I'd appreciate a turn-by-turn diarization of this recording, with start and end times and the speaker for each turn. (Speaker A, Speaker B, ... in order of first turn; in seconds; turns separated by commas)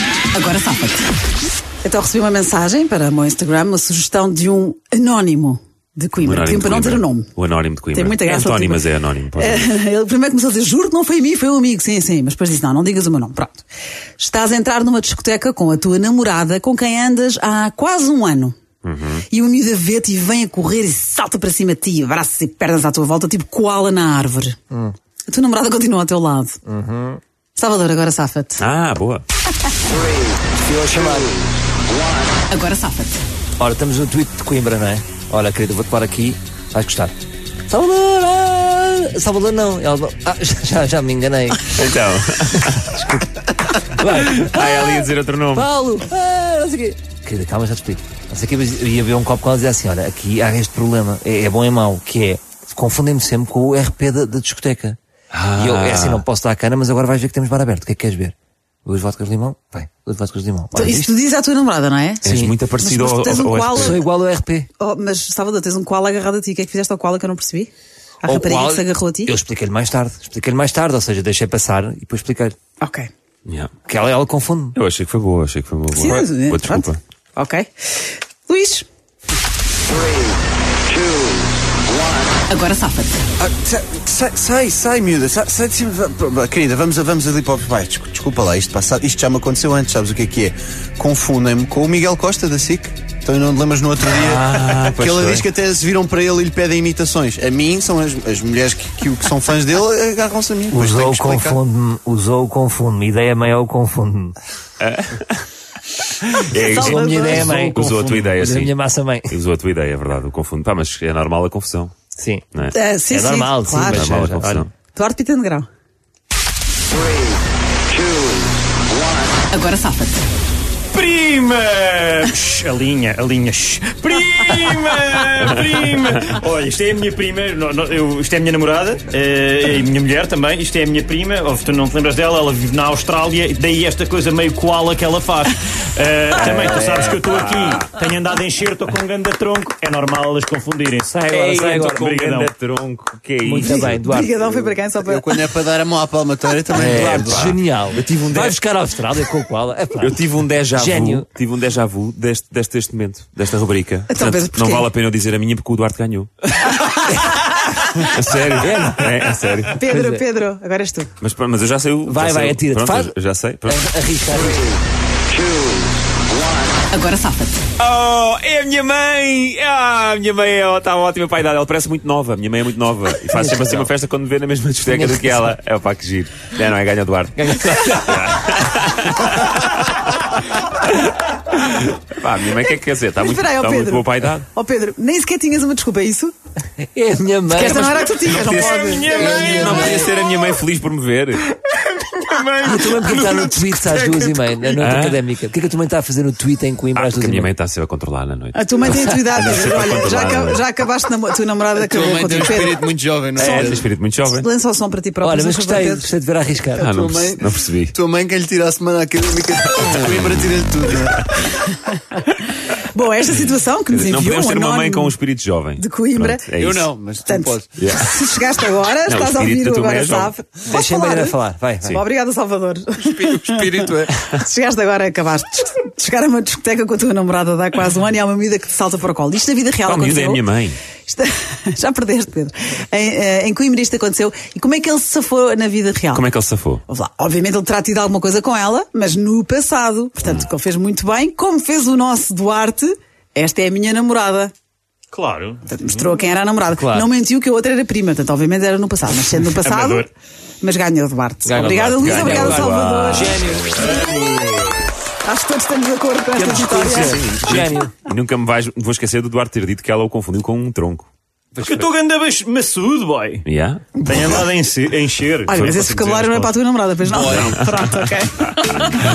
Speaker A: 0.3-1.0, Speaker A: 1.8-7.3, Speaker B: 6.2-9.8, Speaker A: 7.9-8.8, Speaker A: 9.4-13.6, Speaker A: 14.2-18.5, Speaker B: 18.8-19.2, Speaker A: 19.3-24.6, Speaker A: 25.3-26.6, Speaker C: 26.6-27.2, Speaker A: 27.6-28.6, Speaker B: 28.6-29.2, Speaker C: 30.6-31.4, Speaker A: 32.5-33.2, Speaker C: 33.6-37.1, Speaker C: 37.7-41.8, Speaker B: 41.7-43.0, Speaker C: 42.7-55.0, Speaker B: 44.0-45.7, Speaker B: 55.3-56.2, Speaker C: 55.5-61.1, Speaker A: 60.7-62.2, Speaker B: 62.2-64.0, Speaker C: 62.2-62.5, Speaker A: 62.8-64.0, Speaker C: 63.7-64.7, Speaker A: 64.8-67.7, Speaker A: 68.2-69.3, Speaker C: 68.2-72.5, Speaker A: 72.8-73.1, Speaker B: 73.5-73.7, Speaker C: 73.9-74.8, Speaker B: 74.7-77.0, Speaker A: 75.9-78.8, Speaker A: 82.5-83.2, Speaker D: 83.4-101.6, Speaker B: 94.0-95.5, Speaker C: 100.7-104.4, Speaker B: 104.8-105.4, Speaker B: 106.1-107.0, Speaker A: 106.6-107.5, Speaker C: 106.8-109.3, Speaker E: 107.2-108.3, Speaker B: 107.7-108.7, Speaker B: 109.3-111.9, Speaker C: 112.2-112.4, Speaker A: 112.7-114.0, Speaker C: 113.1-114.7, Speaker B: 113.9-114.7, Speaker A: 114.9-115.7, Speaker A: 119.5-120.2, Speaker E: 120.9-142.5, Speaker B: 136.3-137.9, Speaker C: 141.1-142.0, Speaker B: 141.3-144.0, Speaker C: 143.4-144.4, Speaker A: 143.6-145.4, Speaker D: 144.5-147.5, Speaker C: 146.7-150.2, Speaker B: 146.8-148.6, Speaker B: 150.0-157.1, Speaker C: 150.7-151.3, Speaker A: 154.1-154.9, Speaker B: 157.9-159.8, Speaker C: 158.6-159.2, Speaker A: 159.7-161.1, Speaker C: 159.8-160.2, Speaker B: 161.2-163.8, Speaker C: 162.1-163.1, Speaker C: 163.6-164.7, Speaker A: 166.9-167.6, Speaker B: 167.8-184.4, Speaker C: 173.3-173.9, Speaker C: 174.8-175.6, Speaker C: 177.3-178.5, Speaker A: 183.2-186.3, Speaker C: 186.8-188.2, Speaker A: 187.5-189.5, Speaker B: 188.2-191.4, Speaker E: 188.3-190.1, Speaker C: 189.0-190.2, Speaker E: 191.5-194.8, Speaker C: 192.6-197.5, Speaker B: 194.8-195.2, Speaker B: 196.9-200.6, Speaker A: 198.5-202.8, Speaker D: 201.8-203.9, Speaker B: 203.3-204.5, Speaker A: 203.4-203.7, Speaker A: 204.3-206.1, Speaker C: 205.2-206.8, Speaker B: 206.8-207.9, Speaker D: 206.8-211.5, Speaker B: 209.7-211.2, Speaker A: 212.1-215.1, Speaker B: 213.9-216.9, Speaker A: 215.8-216.4, Speaker D: 216.6-217.8, Speaker A: 217.2-230.4, Speaker B: 217.8-218.2, Speaker B: 219.0-220.3, Speaker C: 220.7-222.0, Speaker D: 223.0-224.2, Speaker B: 229.8-230.8, Speaker A: 231.1-236.2, Speaker B: 236.1-236.8, Speaker A: 236.9-244.5, Speaker E: 245.1-246.2, Speaker A: 245.7-250.1, Speaker C: 246.8-247.1, Speaker E: 249.4-250.1, Speaker A: 250.6-253.4, Speaker C: 251.4-253.9, Speaker B: 251.9-253.9, Speaker E: 253.7-254.9, Speaker A: 255.2-257.2, Speaker C: 256.3-257.9, Speaker B: 256.6-261.1, Speaker E: 261.6-263.4, Speaker B: 263.4-264.0, Speaker E: 264.0-266.5, Speaker A: 265.5-268.7, Speaker B: 267.2-267.8